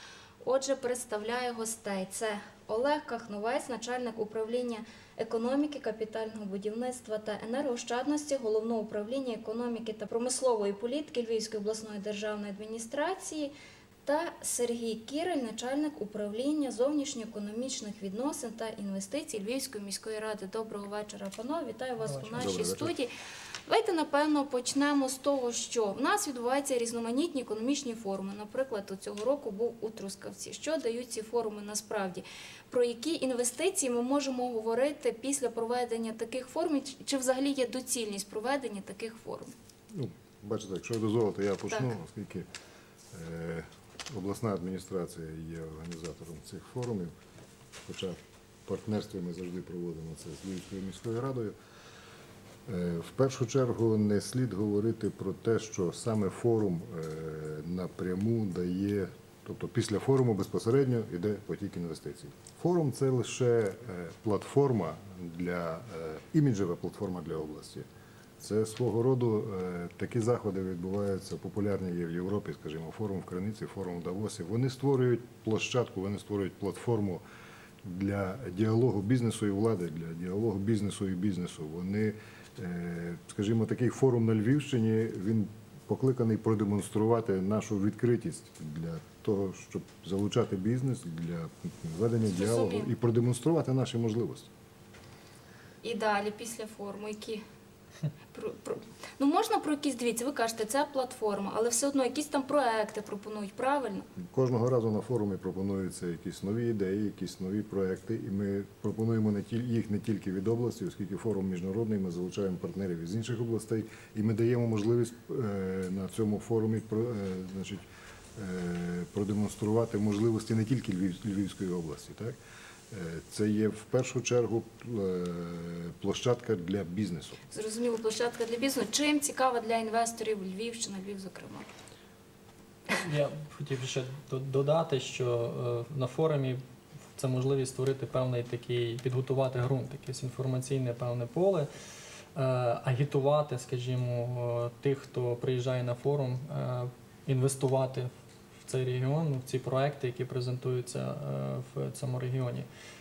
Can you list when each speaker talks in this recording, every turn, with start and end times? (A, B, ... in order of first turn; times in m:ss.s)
0:00.4-0:13.5 A
0:14.0-0:23.1 A
0:22.0-0:22.5 B
0:22.4-0:22.9 C
0:23.7-0:39.5 A
0:39.9-0:42.5 C
0:43.1-0:47.1 C
0:47.7-0:51.6 C
0:52.7-1:07.9 C
1:08.4-1:17.2 C
1:17.8-1:34.5 C
1:32.3-1:32.9 A
1:35.8-1:37.4 A
1:38.3-1:44.1 A
1:44.2-1:57.8 C
1:58.4-2:02.4 C
2:02.9-2:07.4 C
2:07.5-2:11.7 A
2:12.9-2:16.6 B
2:17.2-2:21.7 B
2:22.4-2:28.1 B
2:28.6-2:32.7 B